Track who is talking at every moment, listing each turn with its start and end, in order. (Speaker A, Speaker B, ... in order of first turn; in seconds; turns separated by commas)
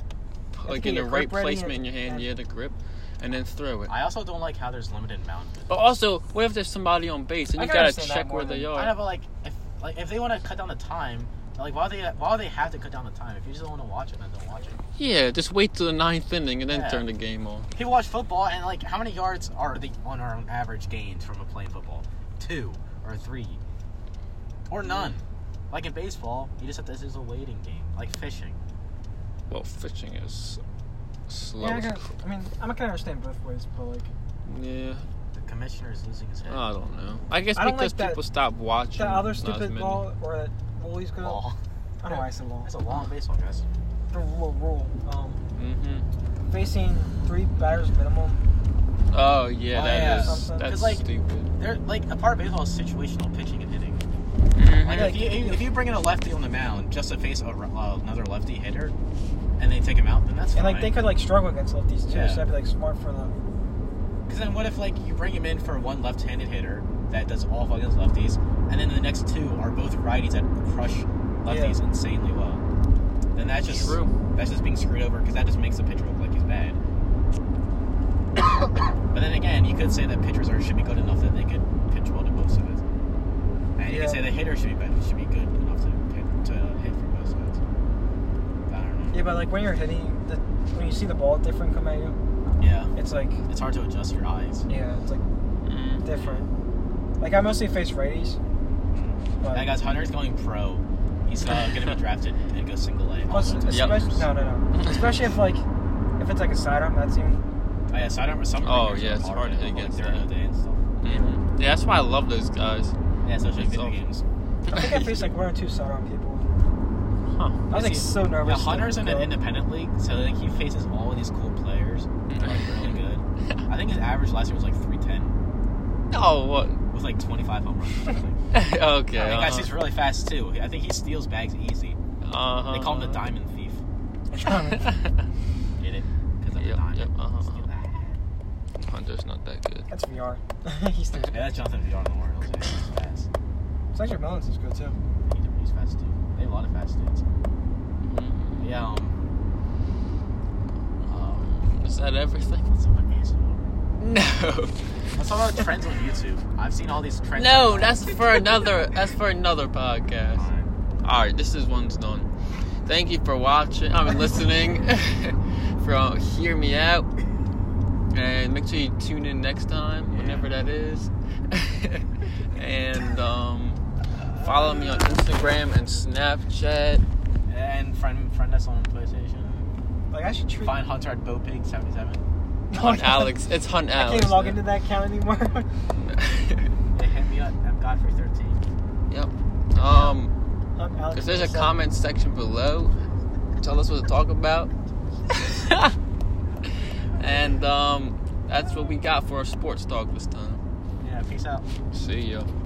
Speaker A: 0.5-3.9, Speaker B: 0.7-2.3, Speaker C: 3.9-5.9, Speaker A: 5.7-9.0, Speaker B: 7.5-8.7, Speaker C: 8.7-14.8, Speaker A: 15.0-17.7, Speaker C: 16.7-17.1, Speaker C: 17.8-23.6, Speaker C: 24.7-28.6, Speaker A: 24.9-25.1, Speaker A: 29.5-30.6, Speaker A: 31.3-32.0, Speaker B: 31.6-34.1, Speaker A: 34.5-35.0, Speaker C: 35.3-36.7, Speaker A: 36.5-40.1, Speaker B: 37.5-38.2, Speaker B: 39.0-41.5, Speaker C: 41.2-41.6, Speaker B: 42.0-42.7, Speaker C: 42.1-43.6, Speaker B: 44.1-45.5, Speaker A: 45.5-46.1, Speaker B: 46.5-48.4, Speaker A: 49.1-51.5, Speaker C: 49.7-51.0, Speaker B: 49.9-50.8, Speaker C: 51.6-54.0, Speaker A: 54.5-55.3, Speaker C: 54.8-59.0, Speaker B: 54.9-55.6, Speaker C: 59.6-60.9, Speaker B: 60.5-63.4, Speaker C: 62.1-62.5, Speaker C: 64.3-72.6, Speaker B: 71.5-71.8, Speaker C: 73.3-76.8, Speaker A: 73.6-74.1, Speaker C: 79.1-82.8, Speaker C: 83.8-87.6, Speaker B: 83.8-84.4, Speaker C: 88.7-89.3, Speaker B: 89.1-92.2, Speaker C: 92.6-92.9, Speaker B: 93.0-93.4, Speaker C: 93.5-94.7, Speaker B: 94.7-95.2, Speaker A: 95.7-96.0, Speaker B: 96.0-96.5, Speaker B: 97.2-98.4, Speaker C: 98.9-104.3, Speaker B: 99.4-99.7, Speaker B: 103.3-105.7, Speaker A: 103.7-104.1, Speaker A: 104.7-105.1, Speaker B: 106.2-107.4, Speaker C: 107.9-110.9, Speaker A: 108.6-110.3, Speaker A: 111.0-114.0, Speaker C: 113.2-114.2, Speaker B: 114.7-116.5, Speaker A: 114.7-115.3, Speaker A: 117.3-117.6, Speaker B: 117.7-119.4, Speaker C: 117.7-125.4, Speaker A: 122.3-123.0, Speaker A: 126.1-126.8, Speaker C: 126.9-128.4, Speaker A: 128.5-129.7, Speaker C: 129.1-132.0, Speaker A: 132.3-133.2, Speaker C: 132.7-133.8, Speaker B: 134.3-134.9, Speaker A: 134.8-135.1, Speaker C: 135.8-138.2, Speaker A: 136.5-137.7, Speaker A: 138.8-139.9, Speaker B: 139.9-141.5, Speaker C: 141.3-143.3, Speaker B: 143.9-145.0, Speaker C: 145.3-147.3, Speaker A: 148.0-148.6, Speaker C: 148.6-149.2, Speaker C: 151.1-151.5, Speaker A: 151.1-152.7, Speaker C: 152.7-153.7, Speaker A: 154.0-154.8, Speaker C: 155.2-158.7, Speaker A: 157.4-160.5, Speaker C: 160.3-160.7, Speaker A: 161.0-162.3, Speaker A: 162.8-167.1, Speaker A: 168.1-173.8, Speaker C: 170.1-170.5, Speaker A: 174.3-177.0, Speaker C: 177.5-179.7, Speaker B: 180.1-180.8, Speaker C: 180.6-182.2, Speaker B: 182.7-183.4, Speaker A: 182.7-184.6, Speaker B: 183.9-185.7, Speaker A: 186.0-186.7, Speaker C: 186.9-188.6, Speaker A: 189.1-190.3, Speaker C: 189.8-190.1, Speaker B: 190.8-191.8, Speaker A: 191.1-192.9, Speaker A: 193.6-194.7, Speaker A: 195.3-195.9, Speaker A: 197.2-200.6, Speaker C: 201.0-201.7, Speaker A: 201.9-202.5